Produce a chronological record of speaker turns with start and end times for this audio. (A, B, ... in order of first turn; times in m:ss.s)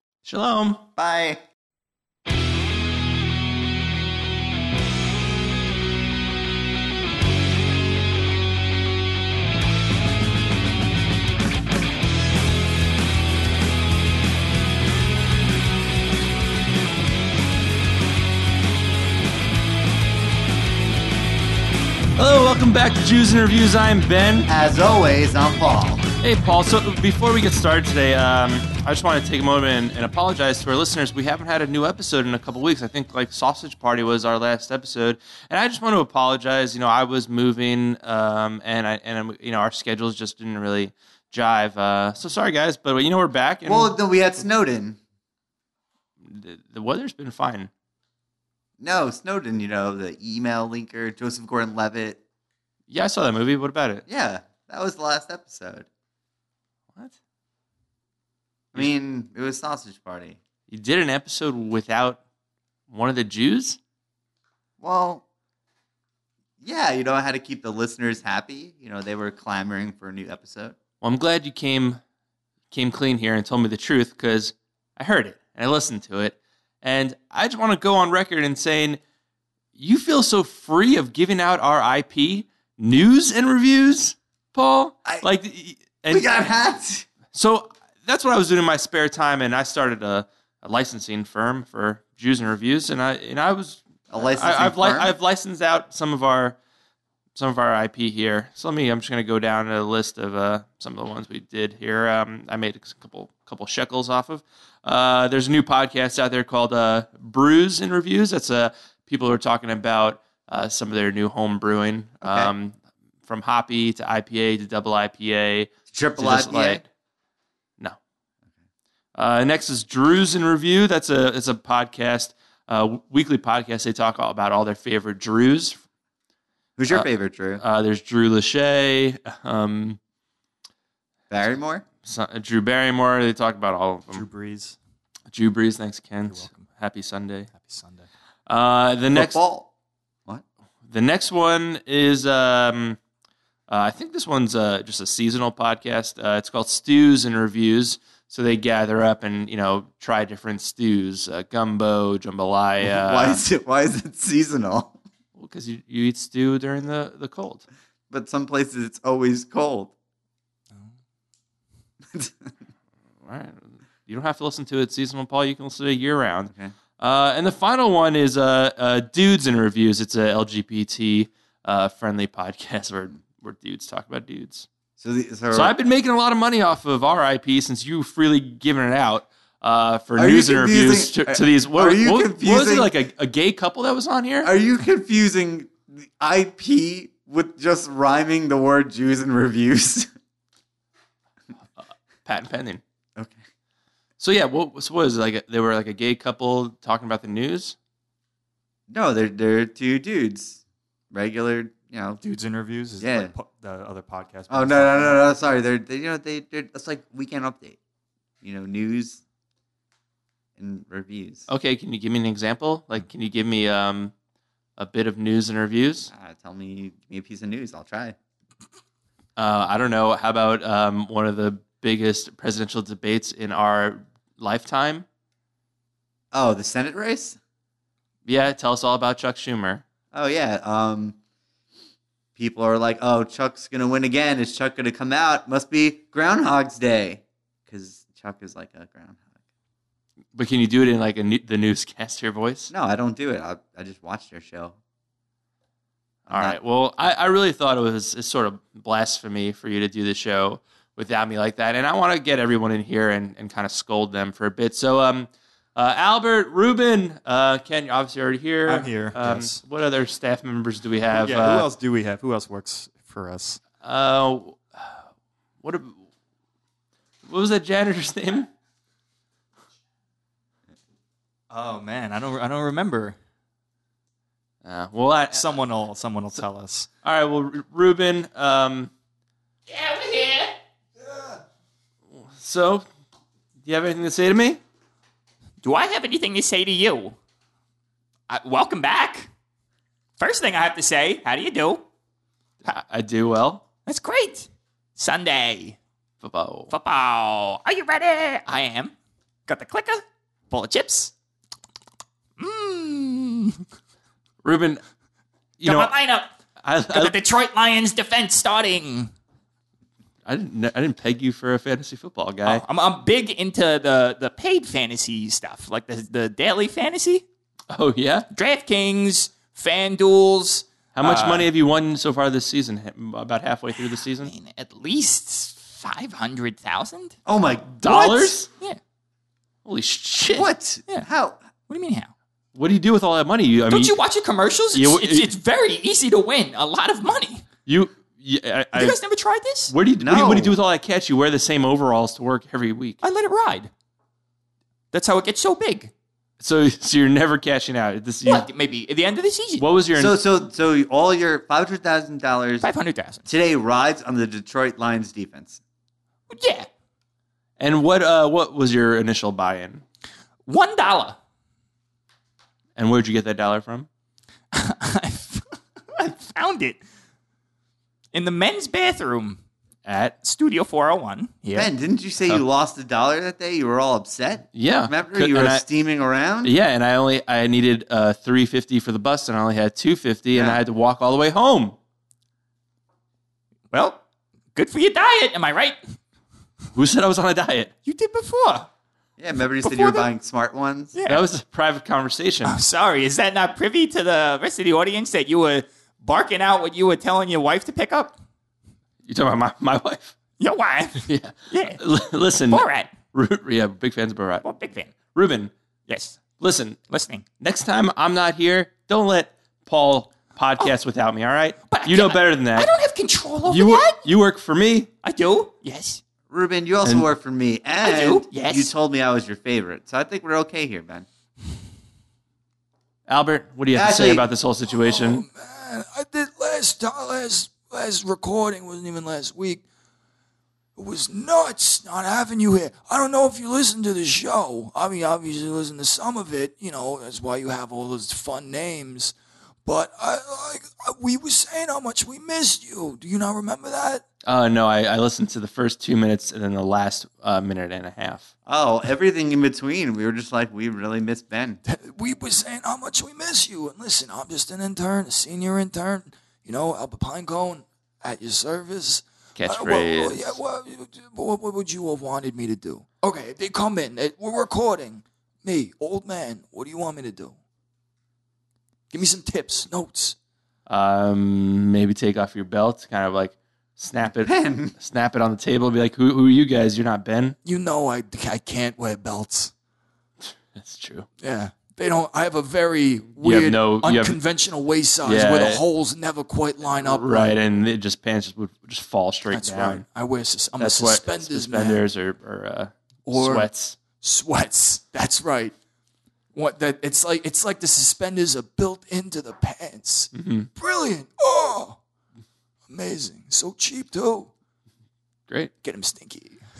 0:00.2-0:00.9 A
0:01.0-0:01.3 B
0:22.2-0:24.5 A
0:24.4-0:26.1 B
0:26.2-0:44.0 A
0:43.6-0:45.0 B
0:46.2-0:47.7 A
0:48.8-0:52.2 B
0:52.9-0:54.0 A
0:54.1-0:55.9 B
0:58.7-1:00.4 B
1:00.7-1:02.2 A
1:02.9-1:03.8 A
1:04.8-1:05.2 B
1:06.6-1:10.8 B
1:11.0-1:12.0 A
1:12.7-1:19.0 A
1:19.8-1:26.3 A
1:26.1-1:27.1 B
1:27.3-1:36.6 A
1:34.1-1:35.1 B
1:37.4-1:52.8 A
1:52.2-1:52.5 B
1:53.3-1:56.8 A
1:55.9-1:56.8 B
1:59.1-2:05.8 A
2:06.8-2:07.6 B
2:06.9-2:10.0 A
2:11.3-2:11.8 B
2:12.0-2:14.2 A
2:14.1-2:14.8 C
2:15.3-2:17.5 A
2:16.3-2:16.6 C
2:17.5-2:18.1 C
2:18.5-2:19.4 A
2:19.1-2:19.7 B
2:20.9-2:23.0 A
2:23.7-2:33.4 A
2:32.8-2:35.0 B
2:35.3-2:37.6 A
2:38.1-2:39.9 B
2:42.1-2:42.5 B
2:43.2-2:54.7 A
2:55.0-2:55.8 B
2:55.5-3:04.5 A
3:00.2-3:02.9 B
3:04.4-3:10.1 B
3:12.2-3:12.8 A
3:14.2-3:17.8 A
3:18.9-3:22.2 B
3:22.2-3:25.2 C
3:23.0-3:23.3 B
3:24.5-3:27.8 B
3:28.4-3:29.2 B
3:30.6-3:31.5 B
3:31.5-3:34.1 A
3:34.8-3:36.1 A
3:36.1-3:38.2 B
3:39.4-3:45.0 A
3:46.3-3:47.4 B
3:48.2-3:49.8 A
3:50.1-3:51.2 B
3:52.4-3:59.3 B
4:00.3-4:02.7 A
4:02.7-4:04.8 B
4:06.3-4:21.7 A
4:06.3-4:06.6 B
4:18.7-4:19.6 C
4:21.1-4:23.6 C
4:23.8-4:25.0 A
4:25.6-4:26.0 A
4:27.2-4:28.5 A
4:31.5-4:33.2 C
4:34.6-4:35.6 A
4:35.3-4:36.9 C
4:37.0-4:38.9 A
4:39.7-4:40.5 D
4:42.1-4:42.8 A
4:43.6-4:44.6 A
4:45.6-4:47.1 D
4:48.3-4:49.3 D
4:50.2-4:51.8 D
4:52.6-4:53.6 A
4:53.8-4:55.8 D
4:56.2-4:56.7 A
4:56.7-4:58.9 D
4:59.5-5:01.1 D
5:02.4-5:03.6 D
5:04.4-5:04.8 A
5:05.6-5:05.9 A
5:05.6-5:06.3 D
5:06.6-5:07.1 A
5:06.9-5:09.1 D
5:10.2-5:12.6 A
5:12.4-5:17.2 D
5:17.7-5:18.3 A
5:18.3-5:21.5 D
5:20.9-5:24.3 A
5:24.2-5:27.2 D
5:27.2-5:28.4 B
5:27.8-5:28.5 A
5:28.5-5:28.8 D
5:29.6-5:30.5 A
5:30.3-5:31.4 B
5:31.7-5:32.1 D
5:32.5-5:34.0 A
5:33.7-5:37.4 D
5:34.7-5:35.3 A
5:37.6-5:39.0 A
5:38.7-5:39.7 D
5:39.7-5:43.0 A
5:40.0-5:40.6 B
5:43.0-5:43.7 D
5:44.9-5:45.9 D
5:46.4-5:48.5 A
5:48.2-5:49.6 D
5:49.6-5:50.2 A
5:49.9-5:52.7 B
5:52.6-5:53.2 D
5:53.2-5:55.6 B
5:56.3-5:56.7 D
5:57.6-5:59.8 A
6:00.5-6:01.2 D
6:02.8-6:03.9 A
6:04.5-6:06.8 D
6:08.1-6:09.4 D
6:09.8-6:10.2 A
6:10.2-6:11.7 D
6:11.5-6:16.5 B
6:14.5-6:15.6 A
6:16.4-6:21.8 A
6:20.3-6:20.6 B
6:23.7-6:24.0 D
6:24.5-6:25.8 D
6:26.7-6:27.7 A
6:27.8-6:28.7 D
6:29.2-6:30.9 B
6:29.6-6:30.1 D
6:30.9-6:31.2 D
6:31.0-6:32.6 A
6:32.4-6:38.2 D
6:39.0-6:40.1 A
6:40.4-6:41.8 D
6:41.0-6:44.4 A
6:42.5-6:42.9 D
6:44.4-6:44.9 D
6:45.1-6:45.5 A
6:45.9-6:46.2 D
6:46.4-6:46.8 A
6:46.9-6:47.2 D
6:47.4-6:52.7 A
6:51.7-6:54.0 D
6:53.5-6:54.9 A
6:55.0-6:56.0 D
6:56.3-7:01.0 B
6:57.8-6:58.7 D
7:03.1-7:05.2 A
7:03.7-7:04.2 B
7:04.7-7:09.6 E
7:10.8-7:19.1 E
7:19.6-7:24.0 E
7:24.2-7:28.3 A
7:28.4-7:31.6 B
7:31.6-7:47.3 E
7:39.4-7:40.4 A
7:48.9-7:50.2 E
7:50.7-7:57.4 A
7:54.2-7:54.7 B
7:57.4-7:59.5 E
8:00.2-8:01.1 A
8:01.2-8:07.3 E
8:03.2-8:04.2 A
8:05.0-8:05.6 A
8:06.7-8:09.8 A
8:09.3-8:11.8 E
8:10.6-8:13.8 A
8:13.0-8:15.5 E
8:16.3-8:21.8 E
8:20.1-8:20.5 A
8:22.7-8:24.3 E
8:25.6-8:26.4 E